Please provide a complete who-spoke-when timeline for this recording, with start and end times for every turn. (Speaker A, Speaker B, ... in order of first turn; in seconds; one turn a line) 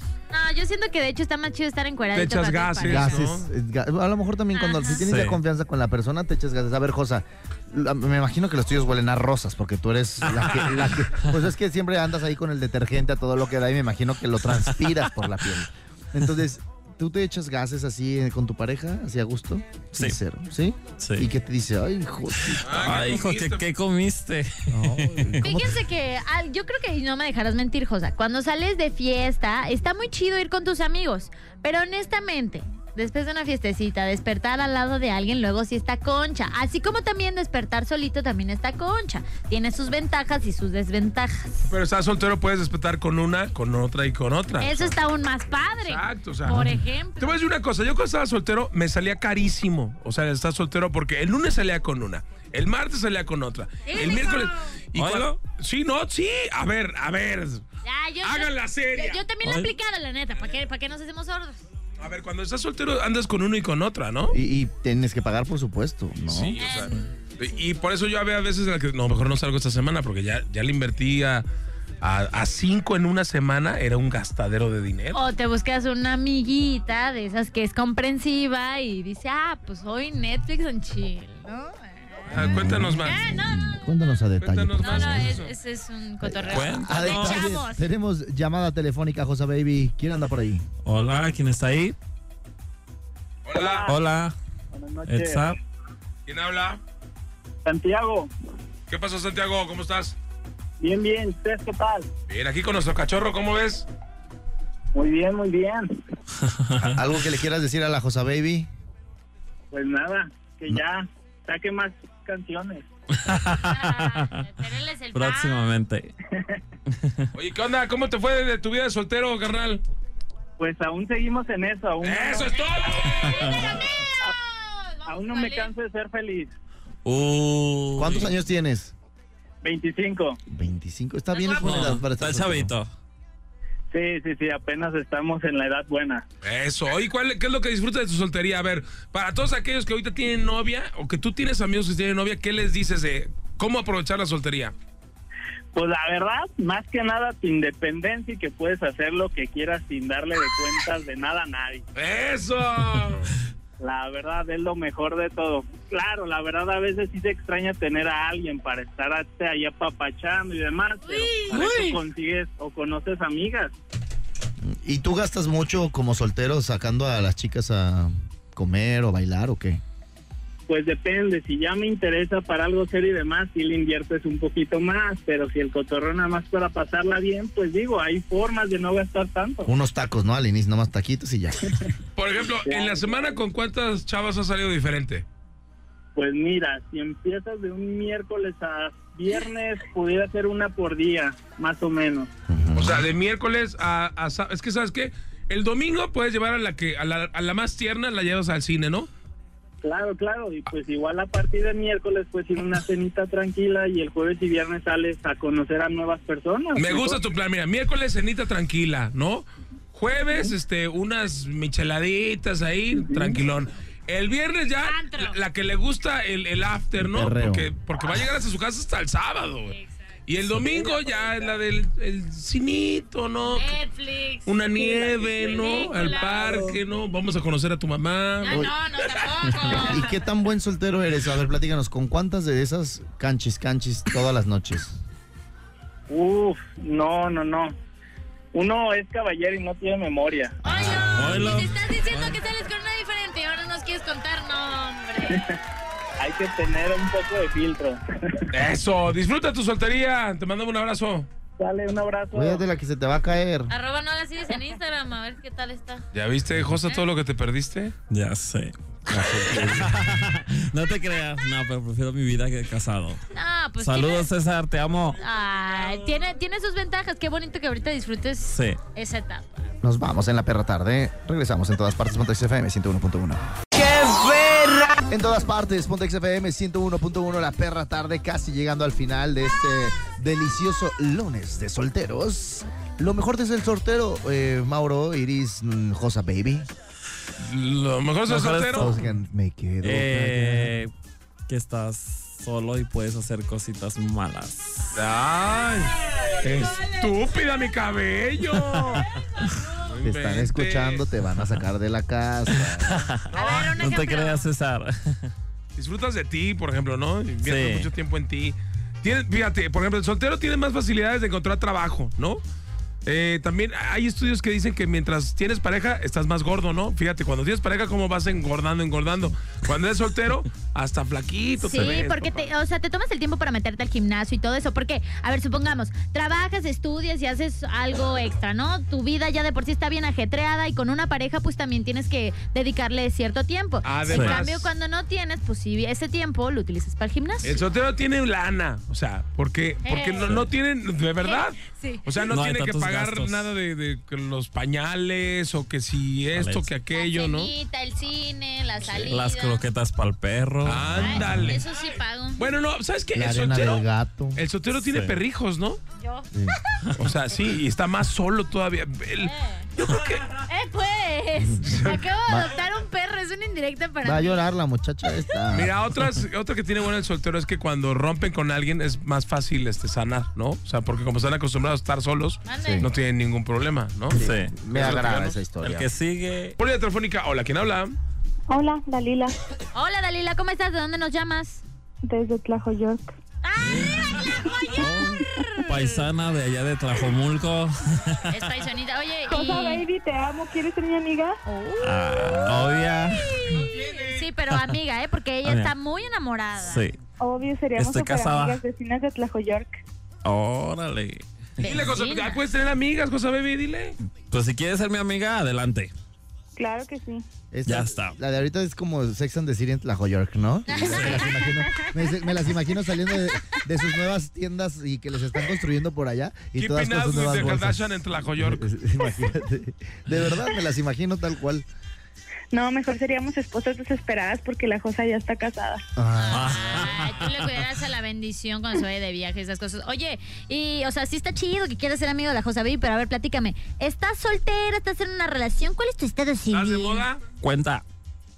Speaker A: 0.3-3.2
Speaker B: 2.1-3.5
Speaker C: 2.9-23.0
Speaker A: 4.5-5.0
Speaker D: 5.0-5.4
Speaker D: 21.0-21.3
Speaker D: 22.5-25.5
Speaker B: 22.6-23.6
Speaker C: 24.7-25.7
Speaker A: 25.4-41.7
Speaker B: 41.7-45.0
Speaker A: 44.6-47.4
Speaker B: 45.8-57.6
Speaker A: 53.9-54.7
Speaker D: 55.0-55.4
Speaker A: 57.8-61.6
Speaker B: 58.2-59.2
Speaker D: 59.4-59.7
Speaker B: 62.0-64.4
Speaker C: 64.3-66.6
Speaker B: 66.2-71.5
Speaker A: 66.6-67.1
Speaker B: 72.0-75.2
Speaker A: 75.1-82.3
Speaker B: 82.3-83.2
Speaker C: 82.3-85.4
Speaker A: 83.0-83.8
Speaker B: 84.4-85.5
Speaker A: 84.8-87.9
Speaker C: 86.2-90.7
Speaker D: 86.5-87.5
Speaker D: 90.8-92.0
Speaker B: 93.5-93.9
Speaker E: 93.5-94.0
Speaker D: 93.8-94.3
Speaker E: 94.7-95.5
Speaker D: 95.1-95.6
Speaker B: 96.3-96.8
Speaker E: 97.7-98.3
Speaker B: 98.9-100.2
Speaker E: 100.8-102.1
Speaker B: 102.3-103.9
Speaker E: 104.9-105.9
Speaker D: 106.4-107.0
Speaker C: 106.8-108.7
Speaker E: 109.7-112.9
Speaker D: 113.1-114.5
Speaker A: 113.6-115.7
Speaker D: 115.1-116.1
Speaker E: 116.3-116.6
Speaker D: 116.9-117.3
Speaker B: 117.3-119.8
Speaker E: 120.6-122.9
Speaker B: 122.0-123.5
Speaker D: 123.1-123.8
Speaker A: 123.2-125.7
Speaker E: 125.1-126.5
Speaker D: 127.0-128.3
Speaker C: 128.0-128.9
Speaker E: 129.6-130.4
Speaker C: 130.5-132.7
Speaker A: 131.3-132.0
Speaker D: 131.6-132.9
Speaker E: 133.9-136.2
Speaker B: 136.4-144.7
Speaker E: 145.7-151.8
Speaker B: 152.0-153.3
Speaker E: 153.8-163.8
Speaker A: 161.1-161.6
Speaker B: 161.5-162.0
Speaker C: 164.6-169.8
Speaker E: 170.7-179.7
Speaker C: 179.7-181.8
Speaker B: 182.2-185.3
Speaker E: 182.6-183.4
Speaker E: 186.2-192.3
Speaker C: 192.5-193.1
Speaker B: 192.8-199.1
Speaker E: 199.8-207.2
Speaker B: 206.8-219.8
Speaker E: 213.0-213.4
Speaker A: 214.8-215.4
Speaker C: 217.0-217.7
Speaker A: 219.7-220.0
Speaker B: 220.3-223.8
Speaker E: 220.7-221.3
Speaker A: 223.5-226.6
Speaker B: 224.5-228.7
Speaker E: 226.1-226.7
Speaker A: 228.4-230.2
Speaker C: 228.5-228.7
Speaker C: 229.7-235.0
Speaker E: 236.1-237.8
Speaker E: 238.5-240.6
Speaker C: 240.6-241.5
Speaker A: 240.7-245.4
Speaker D: 241.1-242.4
Speaker E: 246.2-248.5
Speaker B: 248.5-251.3
Speaker E: 251.6-252.6
Speaker C: 252.3-253.7
Speaker A: 253.7-256.1
Speaker B: 256.1-258.0
Speaker D: 258.1-263.2
Speaker C: 259.1-259.9
Speaker B: 259.2-259.8
Speaker A: 263.3-264.3
Speaker D: 263.8-265.2
Speaker A: 265.2-269.7
Speaker D: 268.5-268.8
Speaker C: 269.8-273.5
Speaker C: 275.1-286.7
Speaker B: 287.4-288.9
Speaker D: 288.3-289.1
Speaker C: 288.7-290.8
Speaker D: 289.8-290.9
Speaker D: 291.5-295.0
Speaker B: 294.9-299.0
Speaker D: 298.6-299.7
Speaker B: 299.8-301.1
Speaker C: 300.0-303.1
Speaker D: 302.5-305.3
Speaker B: 303.3-304.0
Speaker A: 303.3-304.5
Speaker B: 305.8-312.4
Speaker D: 307.4-307.9
Speaker B: 313.1-322.5
Speaker A: 321.6-337.6
Speaker D: 321.7-322.1
Speaker B: 333.8-334.7
Speaker D: 334.1-334.4
Speaker B: 337.4-347.5
Speaker A: 339.8-340.4
Speaker A: 341.2-342.3
Speaker D: 342.3-343.5
Speaker D: 346.3-346.7
Speaker A: 346.9-349.6
Speaker D: 348.9-351.3
Speaker B: 350.6-351.6
Speaker C: 351.0-351.6
Speaker A: 351.0-352.6
Speaker B: 352.4-355.8
Speaker C: 353.1-354.4
Speaker D: 354.8-355.2
Speaker A: 356.0-357.3
Speaker B: 357.0-360.4
Speaker A: 359.2-359.7
Speaker A: 360.3-364.4
Speaker C: 361.4-362.5
Speaker C: 364.0-365.8
Speaker B: 365.5-375.7
Speaker A: 372.5-372.9
Speaker C: 372.6-372.9
Speaker D: 374.1-374.5
Speaker C: 374.1-375.9
Speaker D: 375.6-376.6
Speaker B: 376.6-378.0
Speaker F: 378.5-379.4
Speaker A: 379.7-381.6
Speaker F: 382.0-383.2
Speaker A: 383.4-386.0
Speaker D: 383.6-388.3
Speaker F: 384.7-385.0
Speaker A: 388.3-389.9
Speaker F: 389.3-391.4
Speaker A: 391.4-396.9
Speaker D: 391.8-393.5
Speaker B: 393.5-394.3
Speaker D: 395.4-395.7
Speaker D: 396.6-397.0
Speaker F: 397.2-399.8
Speaker D: 397.8-398.6
Speaker D: 400.2-401.8
Speaker A: 401.6-402.4
Speaker B: 401.6-404.0
Speaker D: 404.3-405.9
Speaker F: 406.6-407.3
Speaker C: 407.5-421.7
Speaker D: 407.7-408.2
Speaker A: 410.7-412.9
Speaker D: 410.7-411.4
Speaker B: 416.6-418.6
Speaker F: 422.5-425.8
Speaker C: 426.0-426.6
Speaker A: 426.2-437.1
Speaker D: 426.3-427.6
Speaker B: 436.5-437.2
Speaker D: 437.4-437.8